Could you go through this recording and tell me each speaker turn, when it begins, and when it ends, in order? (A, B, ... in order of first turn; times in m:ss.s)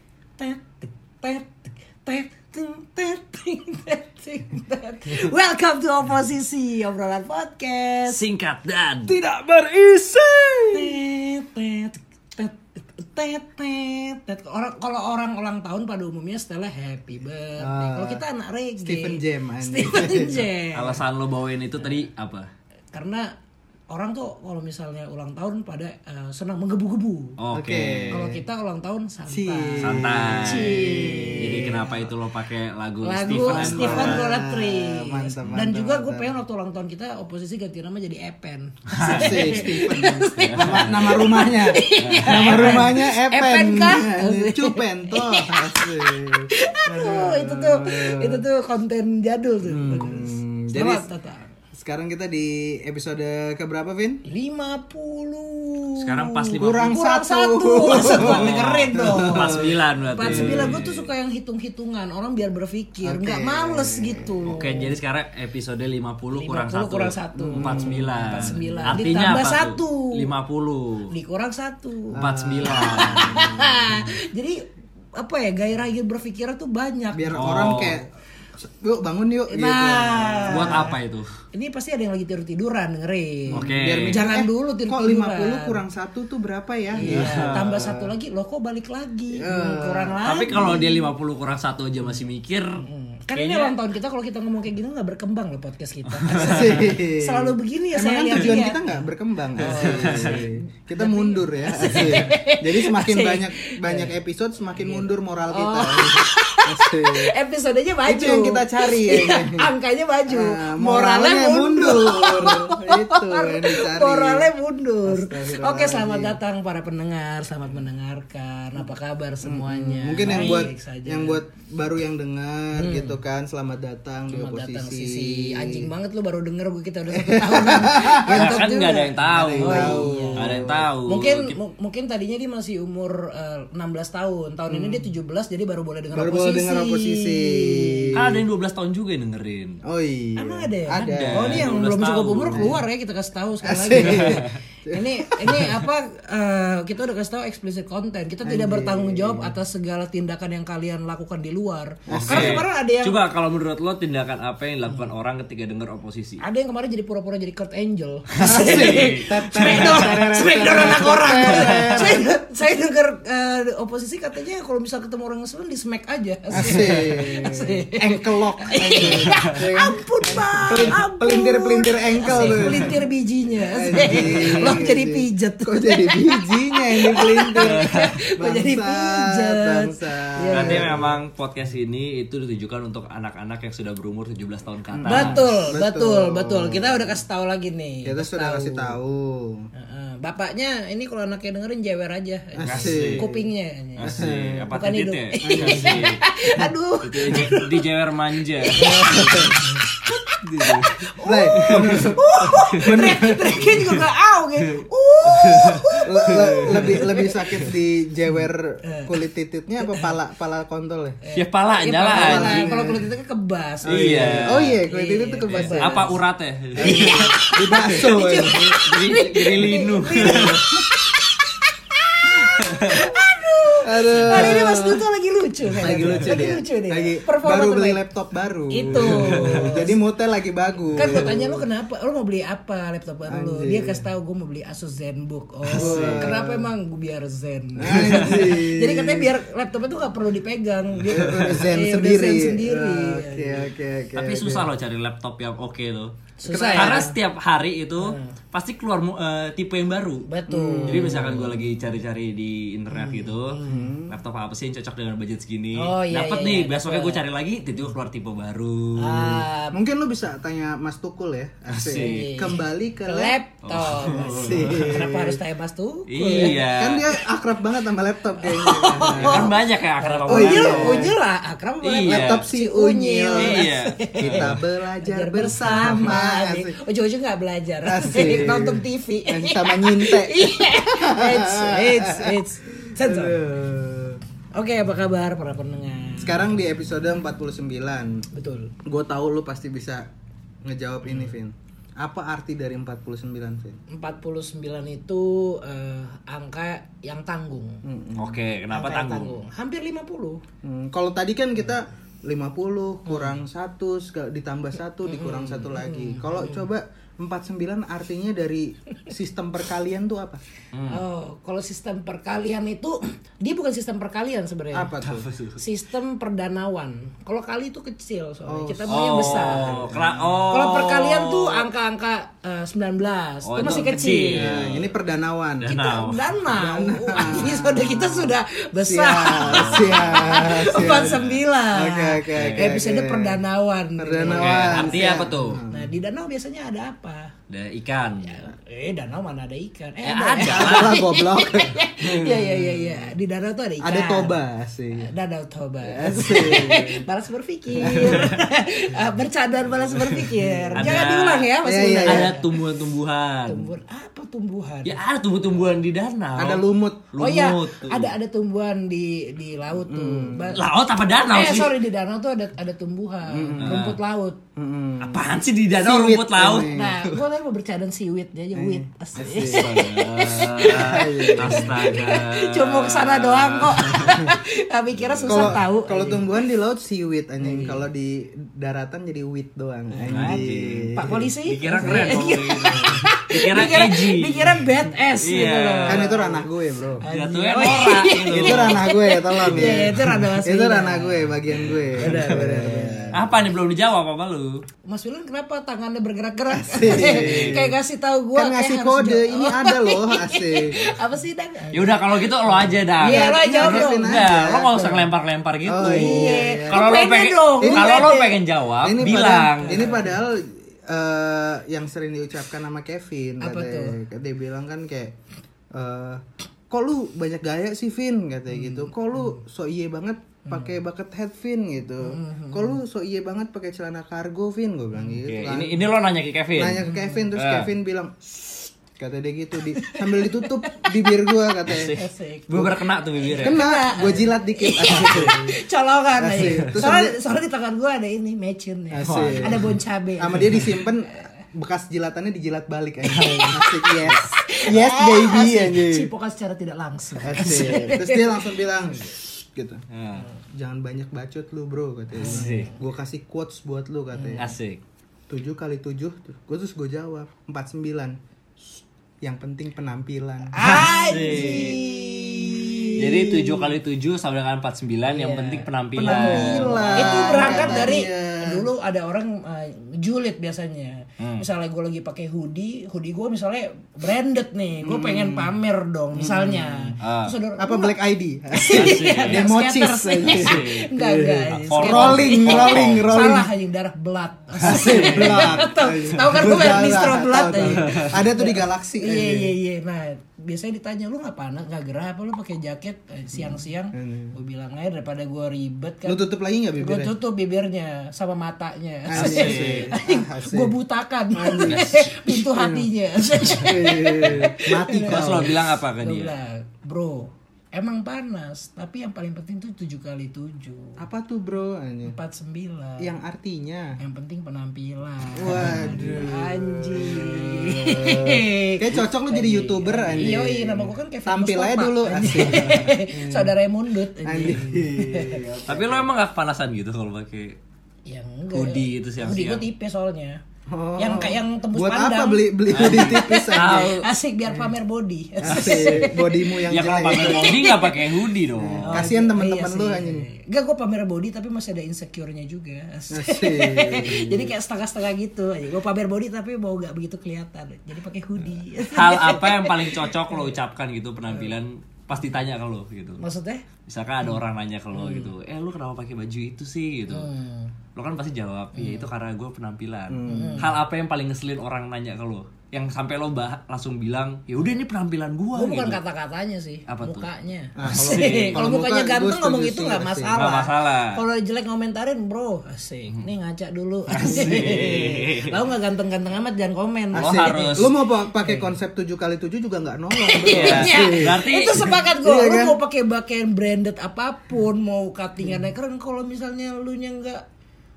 0:00.4-0:08.2 A
0:08.1-0:09.2 B
0:09.1-0:09.8 A
0:09.8-0:10.9 B
0:10.7-0:21.0 A
0:17.6-0:18.2 C
0:18.8-0:20.5 C
0:20.7-0:22.5 B
0:22.9-0:23.3 A
0:23.9-0:27.4 A
0:27.4-0:28.2 B
0:27.5-0:28.4 C
0:28.1-0:32.1 A
0:29.3-0:31.9 C
0:29.8-0:34.2 B
0:33.0-0:51.5 A
0:33.3-0:36.3 C
0:38.9-0:39.6 B
0:39.0-0:48.4 C
0:40.4-0:41.3 B
0:42.0-0:42.9 B
0:49.6-0:51.0 C
0:51.7-0:54.2 C
0:54.2-0:59.6 A
0:56.0-0:57.0 B
0:56.6-1:00.8 C
0:57.9-1:01.1 B
1:00.1-1:04.9 A
1:03.0-1:04.6 C
1:04.4-1:11.1 B
1:06.3-1:10.3 A
1:07.4-1:09.1 C
1:11.1-1:17.8 A
1:12.1-1:14.1 C
1:12.2-1:13.4 B
1:17.1-1:20.9 C
1:17.4-1:18.0 B
1:19.5-1:21.0 A
1:20.5-1:21.3 B
1:21.5-1:25.8 A
1:23.5-1:28.1 C
1:23.5-1:24.2 B
1:26.9-1:31.1 A
1:27.0-1:27.7 B
1:29.3-1:30.9 C
1:30.2-1:32.8 B
1:32.8-1:39.0 A
1:33.3-1:33.8 B
1:36.2-1:36.9 B
1:36.3-1:47.3 C
1:39.6-1:44.1 A
1:39.6-1:40.4 B
1:44.8-2:01.4 A
1:48.0-1:49.7 C
1:50.3-1:54.5 C
1:55.0-1:56.4 C
1:59.4-2:05.9 C
2:02.8-2:03.2 A
2:04.3-2:18.2 A
2:07.1-2:10.9 C
2:08.3-2:11.6 B
2:14.7-2:15.0 C
2:16.1-2:18.4 C
2:18.1-2:19.8 B
2:19.8-2:21.8 C
2:20.4-2:33.2 A
2:21.0-2:22.8 B
2:22.5-2:22.8 C
2:23.6-2:25.8 C
2:24.0-2:24.6 B
2:28.4-2:29.5 C
2:32.1-2:32.6 C
2:32.1-2:36.4 B
2:36.4-3:01.0 A
2:38.3-2:42.1 B
2:38.4-2:42.3 C
2:46.5-2:53.0 C
2:49.0-2:49.5 B
2:52.2-2:52.9 B
2:53.6-3:01.1 C
2:54.0-2:54.6 B
2:57.6-2:58.2 B
3:00.5-3:05.4 B
3:04.9-3:07.2 C
3:05.1-3:09.0 A
3:08.0-3:09.7 C
3:09.7-3:14.2 A
3:12.5-3:13.4 C
3:12.6-3:13.2 B
3:14.0-3:16.2 B
3:14.0-3:14.7 C
3:14.7-3:17.9 A
3:15.4-3:16.7 C
3:17.0-3:19.6 B
3:18.6-3:27.7 A
3:18.8-3:19.6 C
3:20.4-3:21.0 B
3:21.2-3:23.8 C
3:21.5-3:22.9 B
3:24.8-3:27.0 B
3:26.0-3:31.2 C
3:28.8-3:29.1 A
3:31.2-3:36.1 A
3:31.3-3:32.7 B
3:32.1-3:33.1 C
3:33.8-3:36.2 C
3:33.8-3:34.8 B
3:35.5-3:37.4 B
3:36.7-3:38.8 C
3:36.8-3:48.0 A
3:38.7-3:40.7 B
3:40.2-3:40.9 C
3:42.6-3:43.0 B
3:43.8-3:45.0 C
3:44.2-3:44.6 B
3:45.8-3:51.7 C
3:45.8-3:46.3 B
3:48.7-3:50.0 A
3:48.8-3:49.8 B
3:50.9-4:03.7 A
3:53.2-3:54.1 C
3:55.7-3:56.7 C
3:55.7-3:56.3 B
3:57.8-3:59.3 C
3:58.2-3:58.5 B
4:01.0-4:04.7 C
4:04.2-4:06.1 B
4:06.4-4:07.1 A
4:06.4-4:07.2 C
4:06.7-4:10.3 B
4:08.0-4:08.3 A
4:10.3-4:11.6 A
4:10.5-4:11.3 C
4:10.8-4:19.4 B
4:12.9-4:13.9 A
4:13.6-4:14.1 C
4:15.7-4:17.2 A
4:19.0-4:19.8 A
4:19.7-4:25.4 C
4:21.7-4:22.3 B
4:21.9-4:26.6 A
4:23.6-4:25.2 B
4:26.1-4:27.1 B
4:26.3-4:29.6 C
4:28.4-4:43.4 A
4:29.0-4:31.1 B
4:30.3-4:31.1 C
4:31.8-4:32.5 B
4:32.0-4:36.8 C
4:33.3-4:34.6 B
4:37.8-4:44.2 C
4:44.5-4:46.4 A
4:46.2-4:48.2 C
4:48.3-4:48.7 A
4:48.8-4:50.1 C
4:50.6-4:53.8 C
4:53.9-4:57.8 A
4:57.8-4:58.4 C
4:58.2-4:59.4 B
4:58.7-5:00.4 A
5:00.6-5:10.4 C
5:03.0-5:03.3 A
5:05.0-5:06.6 A
5:10.7-5:11.0 B
5:10.9-5:14.9 A
5:14.7-5:15.3 C
5:15.0-5:15.6 B
5:15.6-5:19.8 A
5:18.4-5:20.5 C
5:18.9-5:21.6 B
5:20.5-5:24.5 A
5:23.4-5:24.9 B
5:23.6-5:25.8 C
5:25.6-5:26.3 B
5:25.7-5:37.3 A
5:26.5-5:33.4 C
5:29.4-5:31.3 B
5:32.3-5:32.7 B
5:34.0-5:35.9 C
5:34.2-5:35.6 B
5:37.5-5:38.4 B
5:38.2-5:44.4 A
5:40.0-5:41.0 B
5:40.4-5:43.1 C
5:43.8-5:45.1 C
5:45.0-5:52.5 A
5:45.8-5:47.0 C
5:47.7-5:48.3 C
5:47.8-5:48.4 B
5:50.0-5:51.5 B
5:50.3-5:51.0 C
5:51.6-5:52.4 C
5:52.0-5:53.7 B
5:53.4-5:55.0 A
5:54.8-5:58.1 B
5:56.4-5:57.1 C
5:57.2-6:00.6 A
5:59.7-6:00.6 C
6:00.5-6:01.8 B
6:01.2-6:04.4 A
6:03.3-6:03.8 C
6:03.6-6:04.0 B
6:04.6-6:07.2 C
6:05.0-6:06.7 B
6:06.6-6:16.3 A
6:08.5-6:09.7 C
6:09.4-6:14.3 B
6:10.6-6:11.9 C
6:14.1-6:14.3 C
6:14.9-6:15.6 B
6:15.2-6:23.1 C
6:17.4-6:17.8 A
6:19.9-6:20.4 A
6:20.1-6:24.6 B
6:20.9-6:26.4 A
6:25.2-6:26.2 B
6:25.9-6:27.0 C
6:27.0-6:31.4 A
6:27.1-6:28.9 B
6:28.3-6:33.3 C
6:31.5-6:32.4 B
6:32.0-6:33.2 A
6:33.1-6:34.6 B
6:34.8-6:45.1 A
6:36.5-6:37.7 C
6:36.9-6:37.7 B
6:38.3-6:40.9 C
6:41.7-6:49.9 B
6:43.0-6:45.0 C
6:45.6-6:47.0 C
6:45.8-6:48.4 A
6:47.6-6:48.2 C
6:48.8-6:55.1 C
6:49.0-6:50.2 A
6:53.4-6:54.0 A
6:55.7-7:05.8 C
6:58.5-6:59.4 A
7:00.4-7:00.7 A
7:02.0-7:02.8 A
7:05.2-7:07.7 B
7:06.5-7:11.9 C
7:06.8-7:07.2 A
7:09.7-7:21.3 A
7:11.6-7:13.7 B
7:13.3-7:15.5 C
7:15.0-7:15.3 B
7:16.2-7:17.2 C
7:18.9-7:19.7 C
7:19.0-7:19.7 B
7:20.2-7:26.1 C
7:23.1-7:24.2 B
7:23.4-7:28.5 A
7:27.2-7:29.8 C
7:29.9-7:30.3 B
7:30.5-7:34.5 C
7:32.2-7:32.8 A
7:32.2-7:32.7 B
7:34.1-7:34.5 A
7:34.4-7:34.8 B
7:35.3-7:38.2 C
7:38.7-7:43.5 C
7:40.5-7:43.6 A
7:40.6-7:41.8 B
7:43.0-7:48.0 B
7:45.1-7:57.9 A
7:46.0-7:48.6 C
7:51.2-7:51.4 B
7:54.8-7:55.6 C
7:56.1-7:56.9 C
7:57.0-7:57.3 B
7:57.6-8:03.5 C
7:58.5-8:16.2 A
7:58.7-7:59.5 B
8:00.2-8:00.9 B
8:01.4-8:03.1 B
8:04.6-8:09.5 C
8:04.7-8:05.5 B
8:07.6-8:08.2 B
8:13.4-8:14.3 C
8:16.0-8:17.1 C
8:16.8-8:31.0 A
8:19.1-8:20.7 C
8:19.1-8:19.9 B
8:21.3-8:22.9 C
8:23.4-8:25.5 C
8:24.2-8:24.5 B
8:25.0-8:26.3 B
8:31.0-8:32.2 C
8:32.0-8:33.1 A
8:33.0-8:34.0 C
8:34.0-8:45.5 A
8:35.4-8:43.5 C
8:35.7-8:36.2 B
8:44.2-8:46.1 C
8:45.7-8:47.6 B
8:48.0-8:50.4 A
8:48.5-8:49.6 B
8:50.7-8:53.9 C
8:51.0-8:58.2 A
8:52.7-8:54.1 B
8:55.4-8:57.6 C
8:55.5-8:55.8 B
8:56.7-8:59.1 B
8:58.6-9:00.3 C
8:58.8-9:10.5 A
9:03.1-9:04.5 C
9:08.9-9:13.2 B
9:13.2-9:13.6 A
9:13.9-9:17.3 B
9:14.9-9:15.3 A
9:17.1-9:17.7 A
9:17.9-9:26.0 B
9:18.7-9:19.1 A
9:20.1-9:20.7 C
9:20.2-9:20.7 A
9:25.5-9:37.8 A
9:26.9-9:27.3 B
9:27.7-9:30.4 C
9:27.8-9:28.6 B
9:30.3-9:31.2 B
9:34.1-9:35.6 B
9:37.1-9:42.8 C
9:37.1-9:37.9 B
9:38.4-9:38.7 A
9:40.1-9:47.4 A
9:40.4-9:42.0 B